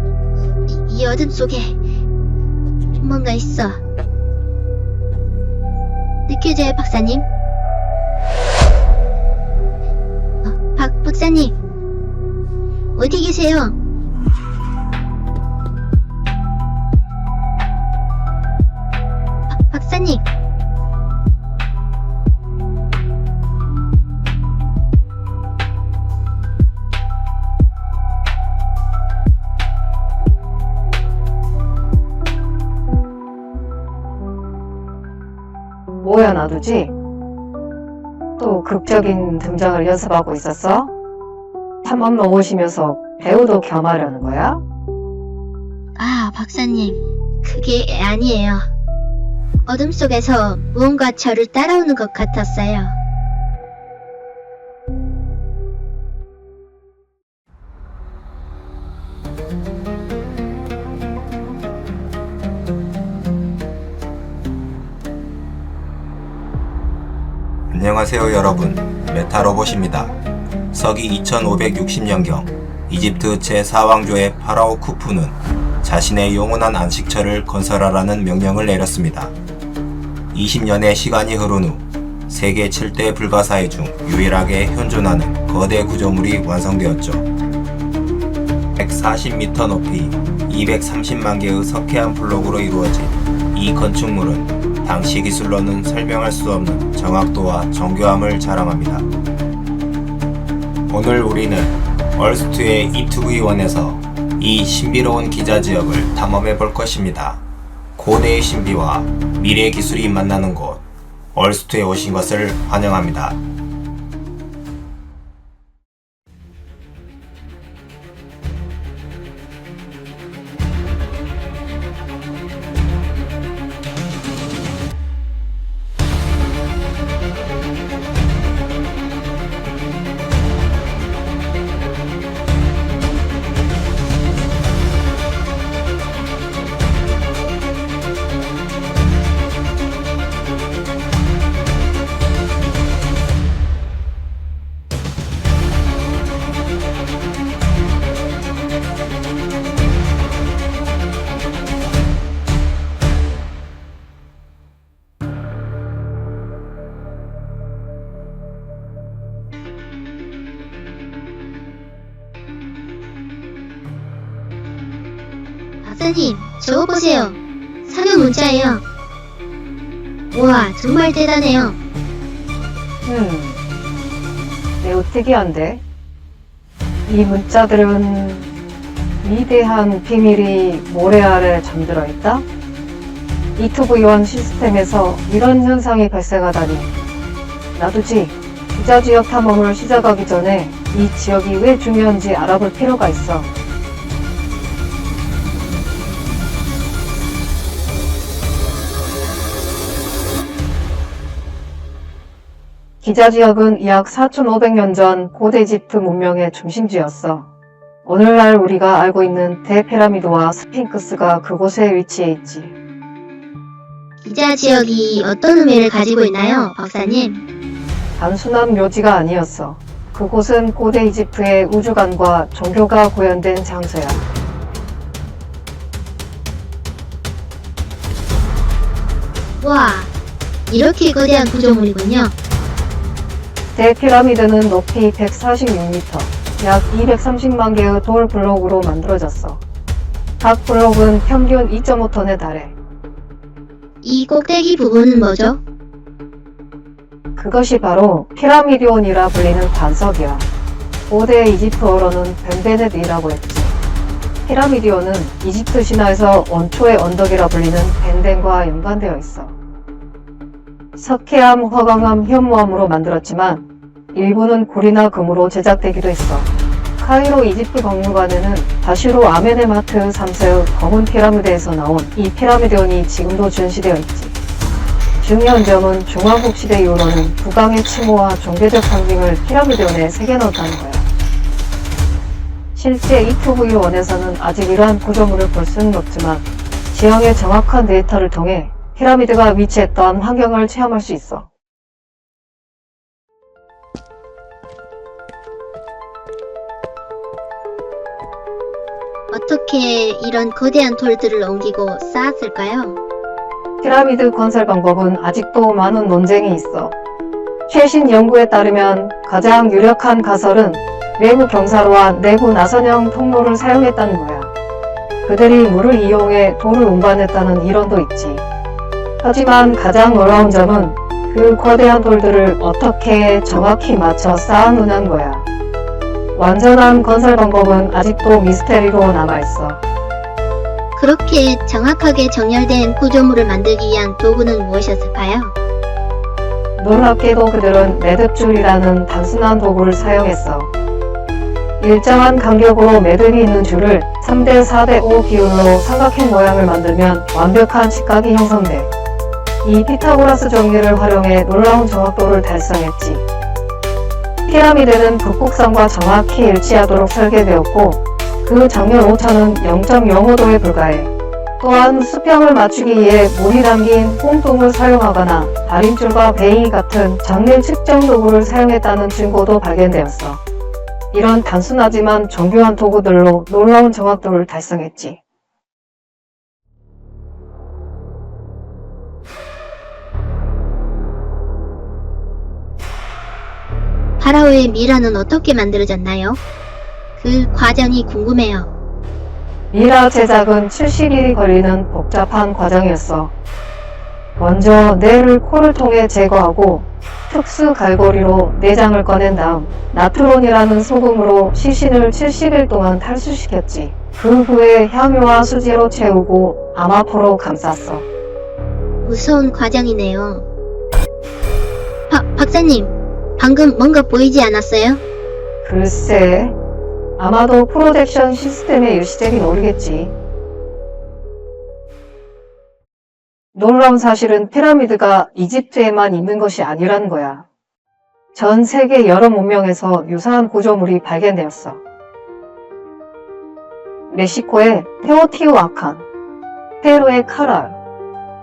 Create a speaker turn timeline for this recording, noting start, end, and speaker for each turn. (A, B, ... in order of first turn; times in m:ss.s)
0:00.7-0:01.8 A
0:03.0-0:03.8 A
0:06.3-0:07.2 A
0:10.4-0:11.6 A
0:13.0-0:13.8 A
0:19.5-0:20.2 A
0:36.0-0:36.9 B
0:38.4-0:40.9 B
0:41.8-0:44.6 B
0:46.0-0:48.7 A
0:49.6-0:53.0 A
1:07.7-1:10.2 C
1:10.7-1:19.3 C
1:20.3-1:27.3 C
1:28.8-1:39.1 C
1:40.9-1:47.4 C
1:48.0-1:50.8 C
1:51.4-1:53.4 C
2:45.8-2:48.8 A
2:50.3-2:51.8 A
2:53.0-2:53.6 B
2:54.8-2:55.8 B
2:57.1-2:58.5 B
2:59.2-3:02.5 B
3:03.6-3:06.9 B
3:07.8-3:13.5 B
3:23.0-3:27.5 B
3:28.0-3:32.7 B
3:34.2-3:37.4 A
3:38.2-3:44.2 B
3:49.6-3:50.1 A
3:50.7-3:52.4 A
3:53.8-3:59.6 B
4:00.4-4:02.8 B
4:04.0-4:05.6 A
4:07.4-4:10.5 B
4:11.1-4:13.8 B
4:14.4-4:19.6 B
4:21.0-4:34.3 B
4:35.2-4:41.1 B
4:42.8-4:51.5 B
4:59.3-5:03.0 A
5:03.8-5:07.0 B
5:07.7-5:14.5 B
5:15.2-5:18.4 B
5:19.2-5:25.5 B
5:26.4-5:29.8 B
5:31.0-5:35.5 A
5:36.8-5:40.7 B
5:41.8-5:48.9 B
5:49.6-5:53.2 B
5:54.5-6:10.4 B
6:11.1-6:15.2 B
6:24.2-6:26.4 A
6:27.2-6:28.7 A
6:29.7-6:33.3 B
6:34.4-6:48.1 B
6:49.0-6:50.5 A
6:52.1-6:55.0 A
6:55.6-6:56.6 B
6:57.2-7:00.1 B
7:03.5-7:07.5 B
7:08.3-7:11.8 B
7:14.1-7:16.0 B
7:16.8-7:17.8 B